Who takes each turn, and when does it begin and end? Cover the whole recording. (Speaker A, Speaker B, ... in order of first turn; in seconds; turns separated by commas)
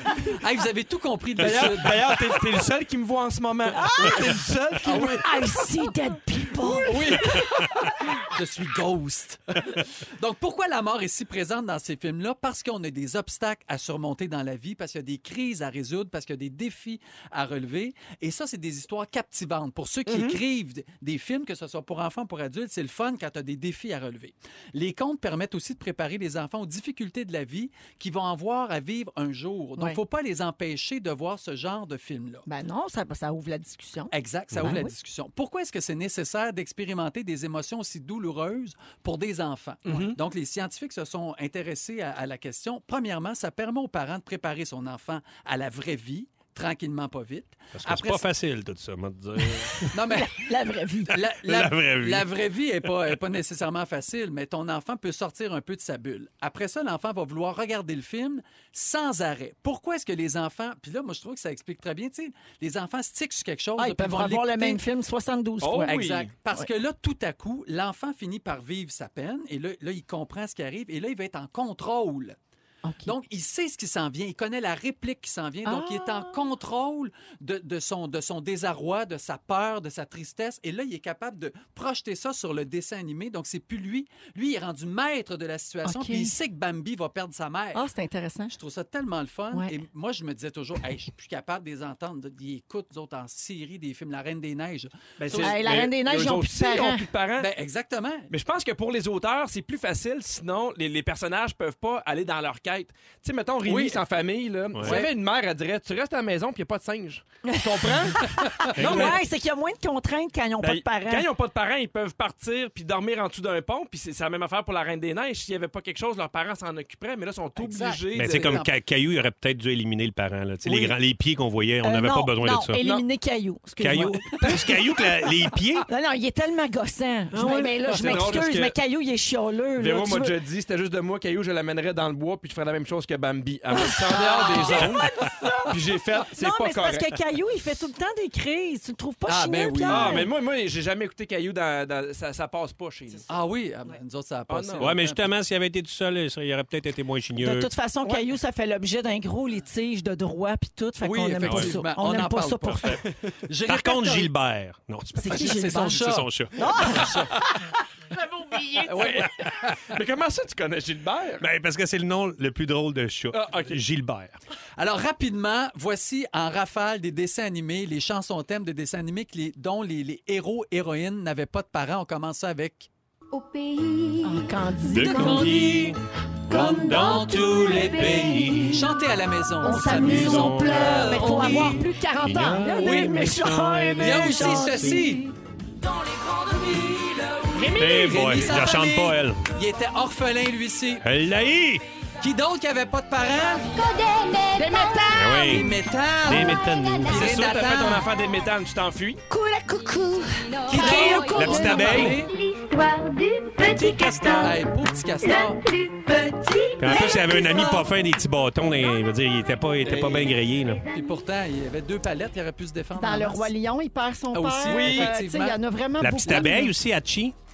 Speaker A: 0.3-2.0, Speaker B: 1.4-5.2, Speaker C: 3.8-4.3, Speaker A: 4.8-5.3, Speaker C: 4.9-7.4, Speaker A: 6.6-32.4, Speaker B: 20.1-20.4, Speaker C: 32.5-34.9, Speaker A: 34.1-48.2, Speaker B: 39.9-40.2, Speaker D: 47.7-50.0, Speaker A: 49.9-50.4, Speaker C: 50.1-51.2, Speaker A: 51.1-64.8, Speaker D: 51.2-53.2, Speaker C: 63.8-65.9, Speaker B: 65.6-66.3, Speaker A: 65.8-72.4, Speaker C: 72.8-73.1, Speaker A: 73.0-87.8, Speaker C: 75.6-76.4, Speaker C: 85.8-86.3, Speaker C: 87.7-88.5, Speaker A: 88.5-95.6, Speaker B: 95.2-97.5, Speaker C: 95.4-97.0, Speaker A: 97.4-98.3, Speaker B: 98.3-109.2, Speaker A: 103.7-104.0, Speaker D: 104.7-105.0, Speaker A: 104.8-105.1, Speaker C: 108.7-111.3, Speaker D: 108.8-109.1, Speaker B: 110.6-118.6, Speaker A: 117.5-118.7, Speaker D: 118.1-122.8, Speaker C: 121.8-124.6, Speaker D: 123.8-125.9, Speaker C: 125.9-130.3, Speaker D: 127.3-128.3, Speaker B: 127.9-128.8, Speaker B: 129.8-135.1, Speaker C: 133.8-135.8, Speaker A: 134.1-135.0, Speaker B: 135.7-137.2, Speaker C: 136.3-140.3, Speaker A: 139.2-140.3, Speaker B: 139.9-143.2, Speaker A: 143.3-145.2, Speaker B: 144.5-144.9, Speaker D: 144.8-147.7, Speaker C: 147.4-153.0, Speaker A: 151.0-154.3, Speaker D: 151.4-151.7, Speaker D: 153.7-157.2, Speaker C: 155.2-156.0, Speaker A: 155.3-157.3, Speaker C: 156.6-157.3, Speaker C: 158.2-159.2, Speaker A: 158.8-159.8, Speaker B: 158.9-159.3, Speaker B: 159.8-161.4, Speaker D: 161.4-164.4, Speaker B: 163.3-163.8, Speaker A: 164.8-172.9, Speaker E: 173.3-175.7, Speaker C: 174.2-175.6, Speaker D: 174.9-178.9, Speaker A: 175.1-175.9, Speaker A: 176.5-181.9, Speaker E: 176.5-179.0, Speaker C: 179.6-185.2, Speaker D: 179.7-185.2, Speaker A: 182.8-183.2, Speaker A: 184.0-185.3, Speaker A: 186.2-191.0, Speaker C: 187.6-188.1, Speaker B: 187.6-188.0, Speaker D: 187.7-189.4, Speaker D: 191.0-191.8, Speaker A: 192.2-193.8, Speaker E: 193.5-195.7, Speaker C: 194.5-195.5, Speaker D: 195.1-197.6, Speaker A: 195.5-198.1, Speaker E: 196.3-197.2, Speaker B: 197.1-199.2, Speaker C: 199.3-201.9, Speaker E: 199.7-207.6, Speaker A: 200.7-202.3, Speaker D: 201.3-202.2, Speaker A: 203.6-205.6, Speaker C: 206.1-207.8, Speaker D: 206.8-210.8, Speaker A: 209.8-210.3, Speaker B: 209.9-210.3, Speaker E: 210.8-211.2, Speaker A: 210.9-213.5, Speaker C: 212.9-216.7, Speaker A: 214.3-215.6, Speaker B: 214.7-215.1, Speaker D: 216.0-217.3, Speaker A: 216.3-216.5